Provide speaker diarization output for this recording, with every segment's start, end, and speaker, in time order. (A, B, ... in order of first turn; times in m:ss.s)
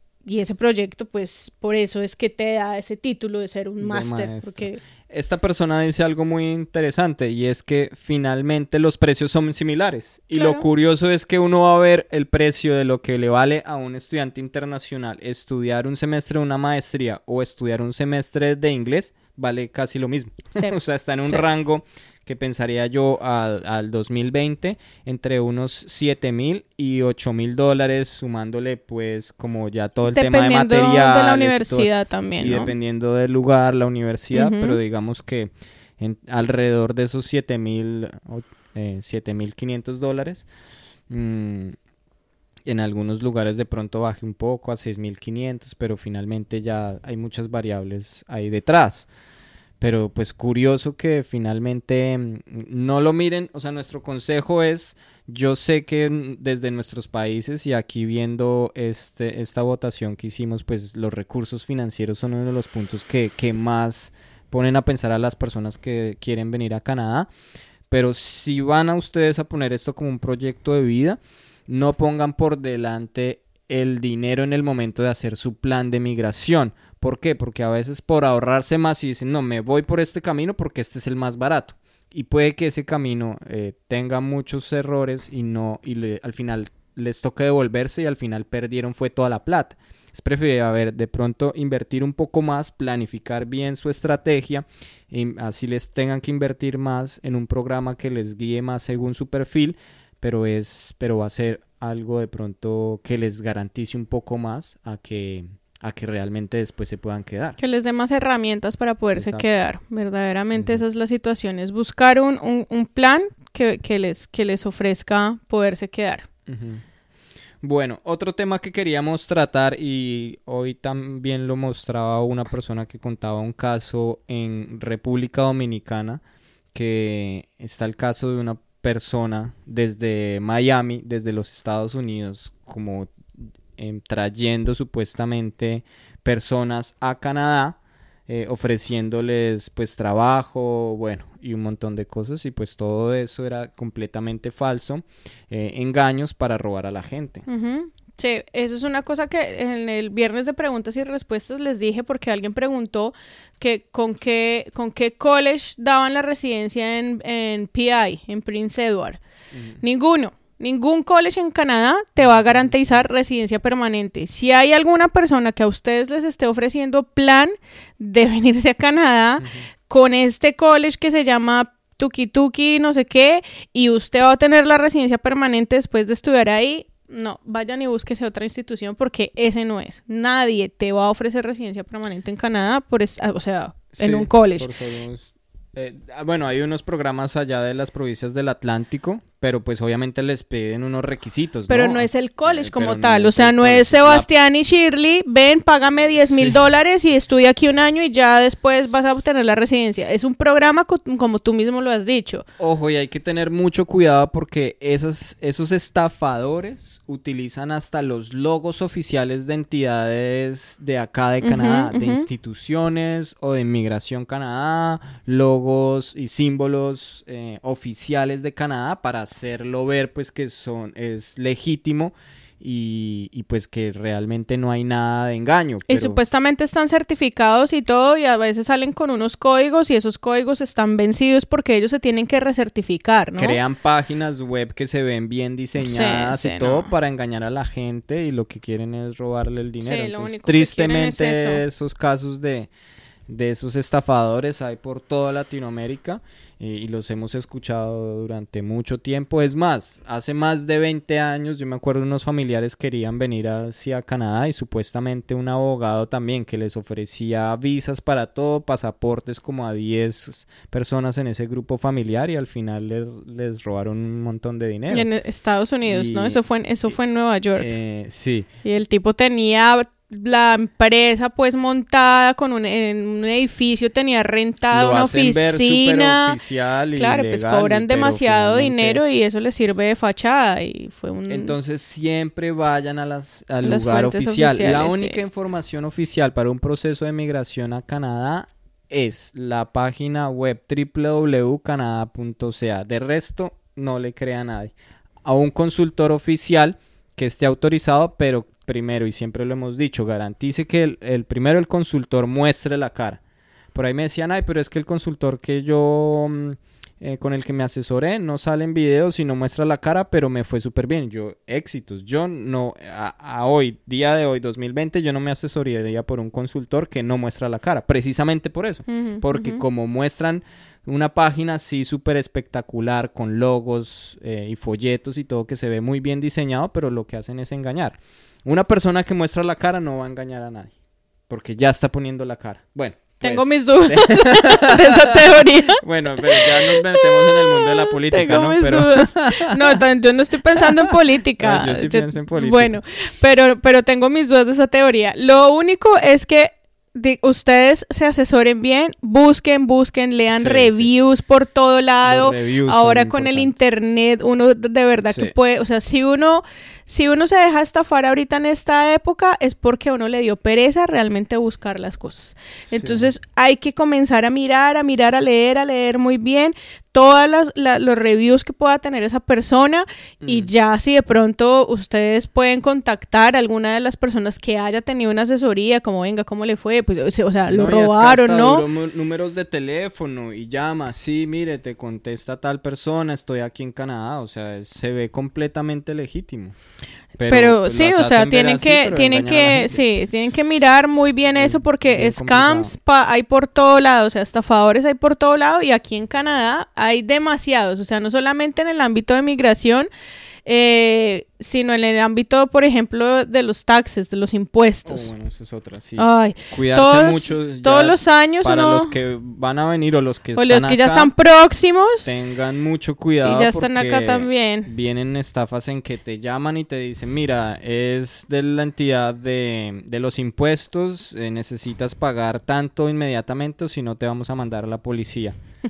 0:00.2-0:04.8 A
0:03.8-0:40.5 B
0:10.3-0:10.6 A
0:30.1-0:32.7 A
0:34.3-0:34.8 A
0:41.1-0:41.8 B
0:42.6-0:49.1 B
0:49.8-1:07.3 B
1:07.9-1:47.6 B
1:47.6-1:56.3 A
1:49.2-1:49.4 B
1:50.5-1:50.8 B
1:56.5-1:56.8 B
1:57.6-2:06.2 B
2:06.7-2:13.1 B
2:13.8-2:27.4 B
2:27.4-2:39.2 A
2:39.5-2:39.8 B
2:39.8-3:04.7 A
2:42.2-2:43.1 B
2:49.4-2:49.7 B
3:03.9-3:14.3 B
3:11.7-3:22.4 A
3:16.3-3:16.6 B
3:22.6-3:46.2 B
3:31.4-3:32.2 A
3:45.9-3:53.6 A
3:53.4-4:02.7 B
3:55.8-3:56.9 A
3:59.8-4:01.6 A
4:03.3-4:25.1 B
4:24.9-4:27.7 A
4:25.8-4:26.4 B
4:27.6-4:28.5 B
4:28.6-4:36.4 A
4:34.7-4:39.0 B
4:37.0-4:41.6 A
4:41.3-4:54.7 B
4:43.6-4:45.2 A
4:55.2-5:03.2 B
5:03.7-5:30.7 B
5:18.9-5:19.6 A
5:31.3-5:39.8 B
5:33.2-6:18.6 A
5:40.6-5:42.8 B
5:50.3-5:50.9 B
5:52.0-5:53.5 B
5:55.1-5:55.3 B
6:02.7-6:03.1 B
6:10.2-6:10.5 B
6:17.5-6:26.5 B
6:27.2-6:29.8 B
6:27.3-6:39.9 A
6:31.4-6:32.7 B
6:40.5-6:45.1 A
6:44.8-6:51.1 B
6:46.0-6:48.9 A
6:50.4-6:52.1 A
6:52.0-7:05.4 B
6:53.2-6:54.7 A